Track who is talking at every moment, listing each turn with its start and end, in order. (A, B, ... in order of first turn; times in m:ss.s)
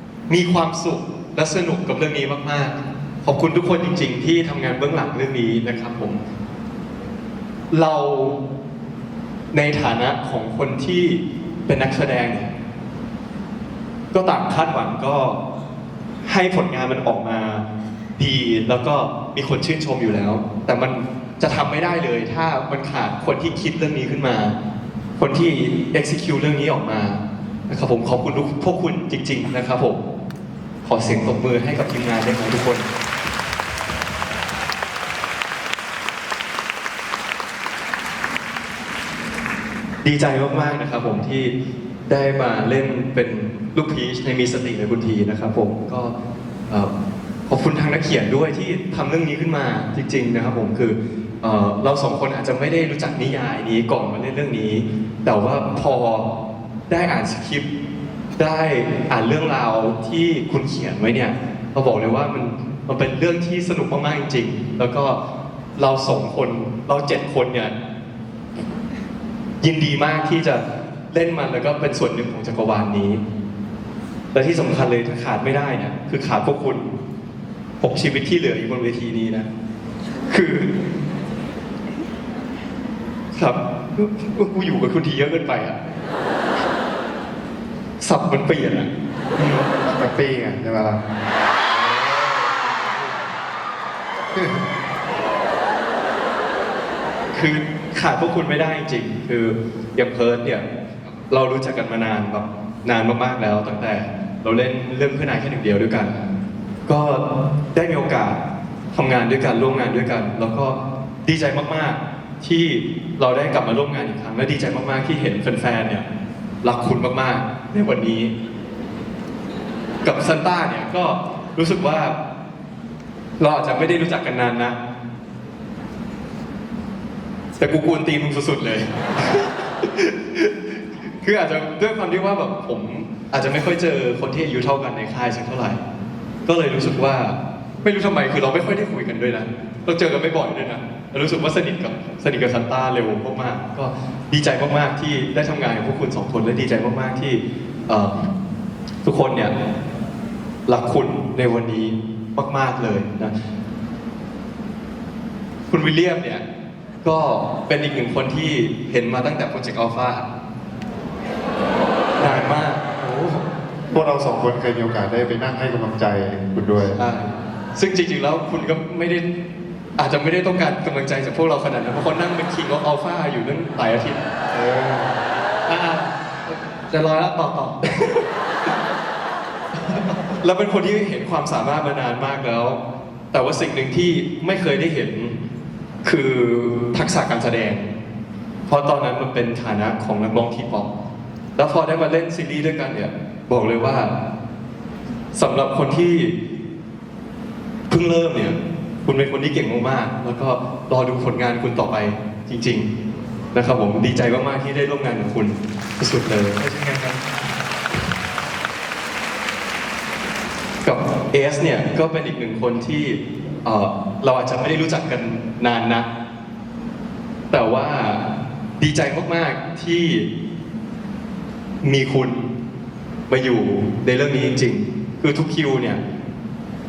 0:00.3-0:06.2 A
0:07.7-0:08.4 A
0:09.5-0:12.5 A
0:14.1-0:15.4 A
0:16.2-0:17.6 A
0:18.2-0:24.6 A
0:25.2-0:30.0 A
0:30.8-0:32.9 A
0:40.0-0:41.5 A
0:42.1-0:46.1 A
0:47.5-0:56.3 A
0:56.9-0:57.7 A
0:58.4-1:05.2 A
1:05.8-1:07.7 A
1:09.6-1:13.2 A
1:14.3-1:16.9 A
1:17.8-1:19.5 A
1:20.3-1:20.7 A
1:23.3-1:25.8 A
1:28.0-1:28.9 A
1:29.4-1:31.0 B
1:31.7-1:33.2 B
1:34.3-1:34.6 B
1:37.3-1:40.6 A
1:41.3-1:46.2 A
1:46.9-1:48.4 A
1:48.9-1:56.0 A
1:56.6-1:58.3 A
2:00.0-2:02.2 A
2:03.4-2:04.8 A
2:07.6-2:15.8 A
2:16.5-2:28.3 A
2:29.0-2:29.5 A
2:30.7-2:33.3 A
2:35.7-2:36.4 A
2:37.0-2:40.3 A
2:42.2-2:43.0 A
2:42.2-2:42.6 B
2:43.9-2:47.0 B
2:47.0-2:49.2 A
2:50.0-2:54.2 A
2:54.5-2:55.1 B
2:55.7-2:57.8 C
3:00.4-3:02.8 A
3:03.3-3:05.3 A
3:06.0-3:07.9 A
3:08.7-3:10.9 A
3:11.6-3:14.1 A
3:15.4-3:16.3 A
3:17.9-3:22.9 A
3:23.5-3:26.6 A
3:26.6-3:27.2 C
3:30.8-3:36.1 A
3:37.5-3:38.2 A
3:38.8-3:40.3 A
3:41.8-3:42.5 A
3:43.3-3:46.0 A